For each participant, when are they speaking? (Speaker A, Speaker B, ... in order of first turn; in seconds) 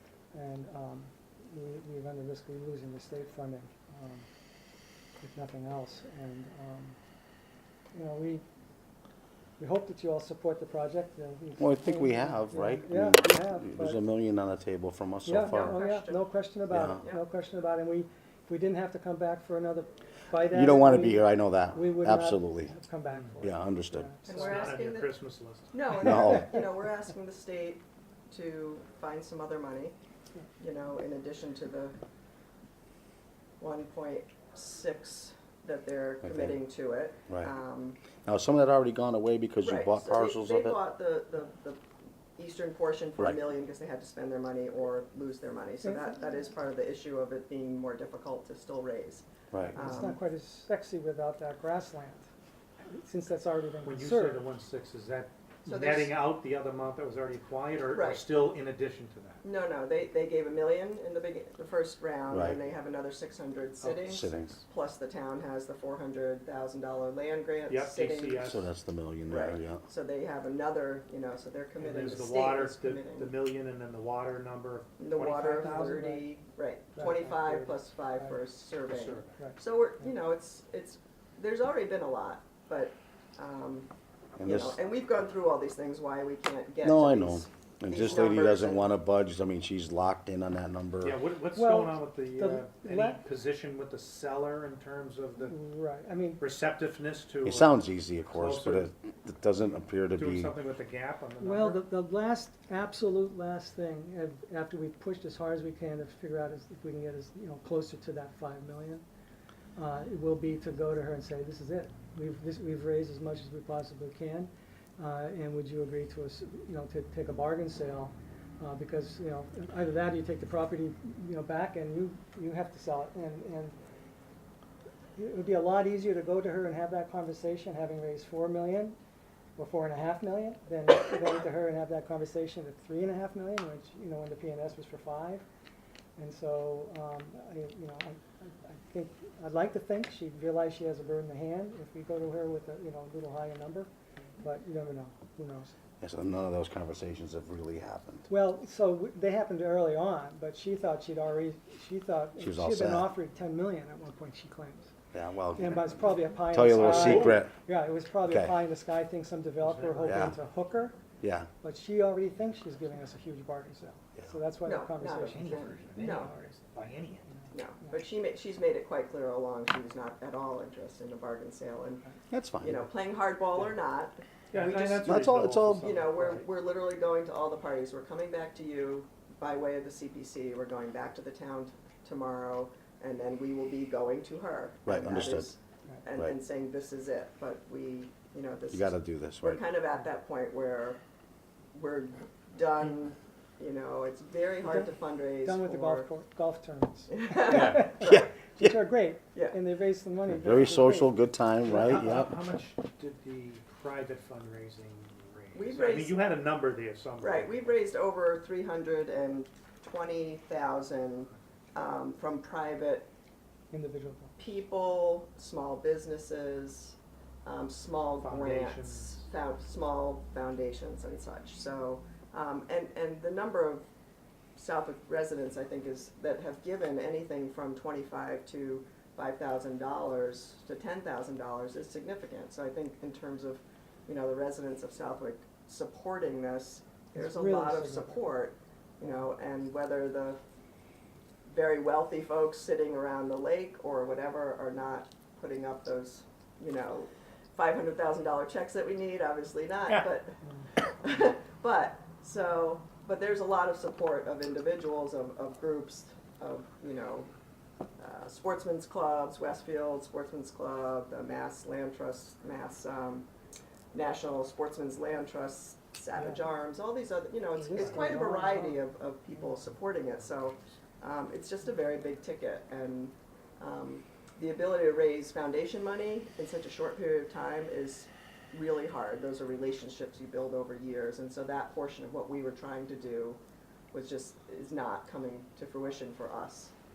Speaker A: 0.3-4.3, 5.2-7.0, 7.9-8.4, 9.6-14.0, 15.2-24.3, 45.8-46.2, 49.8-52.3, 52.9-54.4, 75.4-76.2, 77.0-78.3, 91.5-93.2, 95.5-96.4, 101.4-109.0, 109.8-123.8, 125.2-129.0, 129.6-135.4, 136.2-143.9, 144.4-145.7, 148.3-154.9, 155.6-161.0, 161.6-165.8, 194.7-201.1, 213.7-214.4, 237.2-238.3, 267.5-268.8
Speaker B: 11.6-15.8, 16.7-17.0, 20.4-22.7, 23.4-24.1, 26.0-26.6, 36.2-36.6, 38.2-40.8, 49.5-49.8, 62.3-62.6, 64.0-64.6, 68.4-69.9, 84.4-84.8, 86.8-91.2, 97.4-100.5, 146.0-148.3, 152.4-153.1, 155.1-157.5, 158.3-158.5, 160.1-160.4, 161.2-161.5, 172.3-172.8, 175.0-175.9, 184.9-185.5, 188.7-189.6, 197.5-198.8, 200.3-202.3
Speaker C: 15.4-16.2, 16.9-17.2, 24.2-29.9, 30.6-32.0, 33.6-38.0, 39.6-41.8, 42.4-50.2, 55.7-56.2, 57.9-58.3, 59.4-68.5, 69.3-73.3, 75.0-88.9, 164.7-166.3, 167.5-172.1, 172.6-191.0, 191.7-196.1, 197.1-198.2, 205.6-206.2, 207.2-213.1, 214.4-223.8, 224.6-240.4, 241.5-257.3, 258.0-263.3, 263.9-283.4, 283.9-286.7
Speaker D: 23.1-23.4, 24.3-25.7, 53.8-59.4, 63.8-64.2, 67.7-68.7, 71.8-76.1, 78.9-79.4, 91.0-95.6, 96.4-98.9, 100.1-101.8, 156.7-157.4, 159.6-160.3, 165.0-167.3, 174.5-176.5, 201.7-207.6, 218.2-219.3, 267.8-268.1